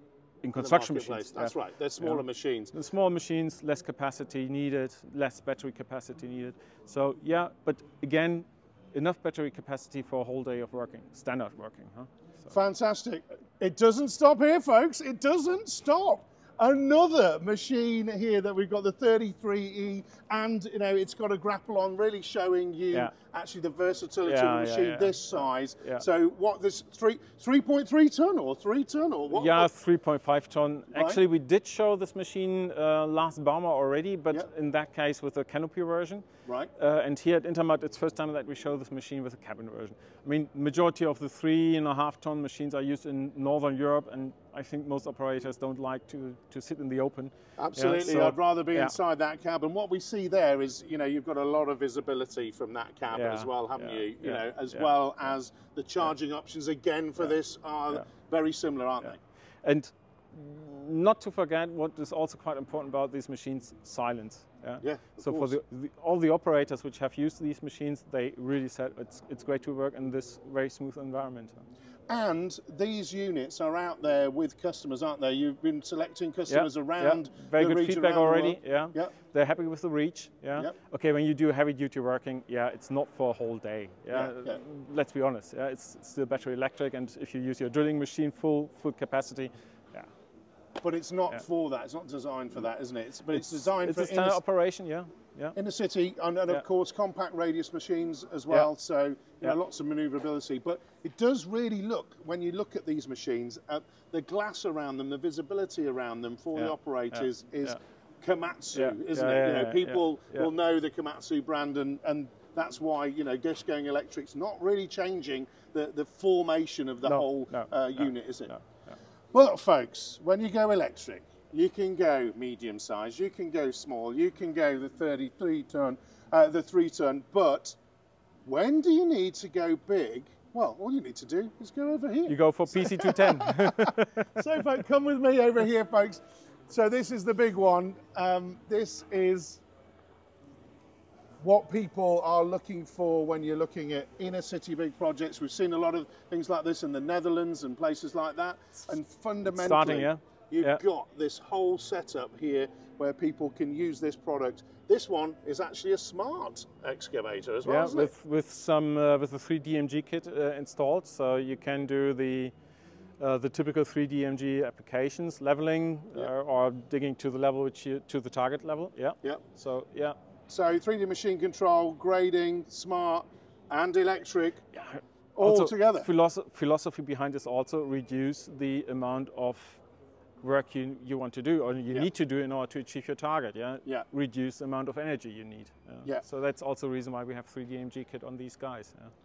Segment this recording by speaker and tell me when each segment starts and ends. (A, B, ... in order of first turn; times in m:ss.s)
0:00.4-0:12.5 A
0:00.6-0:02.7 B
0:12.5-0:29.7 B
0:24.2-0:26.0 A
0:29.3-0:36.2 A
0:30.9-0:31.2 B
0:36.4-0:36.7 B
0:36.8-0:48.9 A
0:47.6-0:59.2 B
0:53.1-0:54.9 A
0:59.6-1:11.6 A
1:04.8-1:05.6 B
1:12.1-1:19.1 B
1:16.5-1:30.1 A
1:24.1-1:24.6 B
1:30.8-1:34.4 B
1:33.3-1:35.6 A
1:35.5-1:58.5 B
1:46.6-1:47.8 A
1:48.7-1:50.5 A
1:57.0-1:58.9 A
1:59.3-2:07.8 B
2:08.4-2:19.6 B
2:12.3-2:14.6 A
2:21.4-2:38.1 B
2:29.5-2:30.8 A
2:37.6-2:42.5 A
2:43.2-2:50.2 A
2:50.5-2:54.6 B
2:54.7-2:59.8 A
2:55.4-2:56.1 B
3:00.4-3:09.1 A